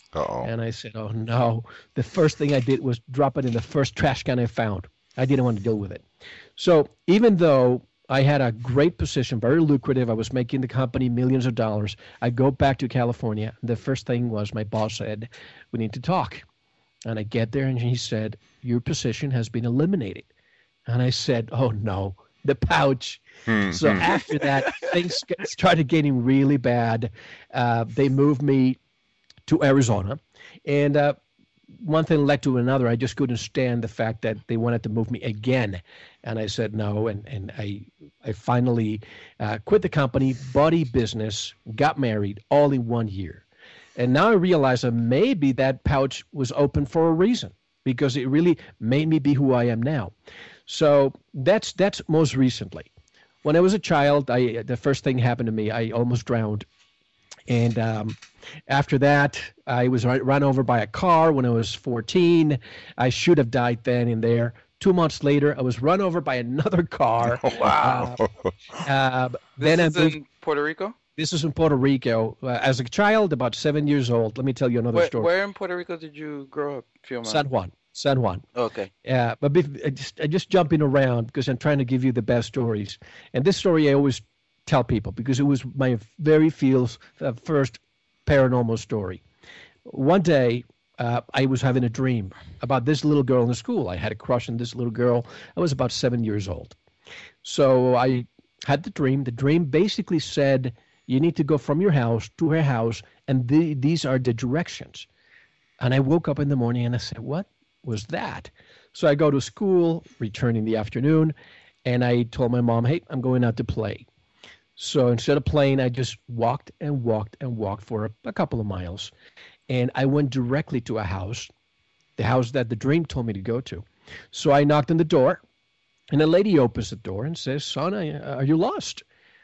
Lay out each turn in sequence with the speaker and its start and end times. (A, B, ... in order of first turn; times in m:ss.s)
0:00.1-0:00.5 A
0:00.4-0:06.0 B
0:06.6-0:16.4 B
0:17.0-0:20.3 B
0:20.9-0:28.8 B
0:23.5-0:24.0 A
0:29.5-0:31.2 B
0:31.8-0:43.4 B
0:44.0-0:50.1 B
0:50.7-0:52.9 B
0:53.4-0:56.6 B
0:57.5-1:08.2 B
1:07.4-1:08.5 A
1:08.8-1:10.2 B
1:09.6-1:11.0 C
1:11.2-1:15.3 B
1:14.9-1:17.4 C
1:17.2-1:18.4 B
1:18.5-1:18.9 C
1:19.0-1:29.2 B
1:29.9-1:36.8 B
1:37.4-1:45.1 B
1:45.8-1:51.3 B
1:51.9-1:54.0 B
1:54.8-1:59.1 B
1:59.7-2:01.5 B
2:02.2-2:05.4 B
2:06.1-2:09.0 B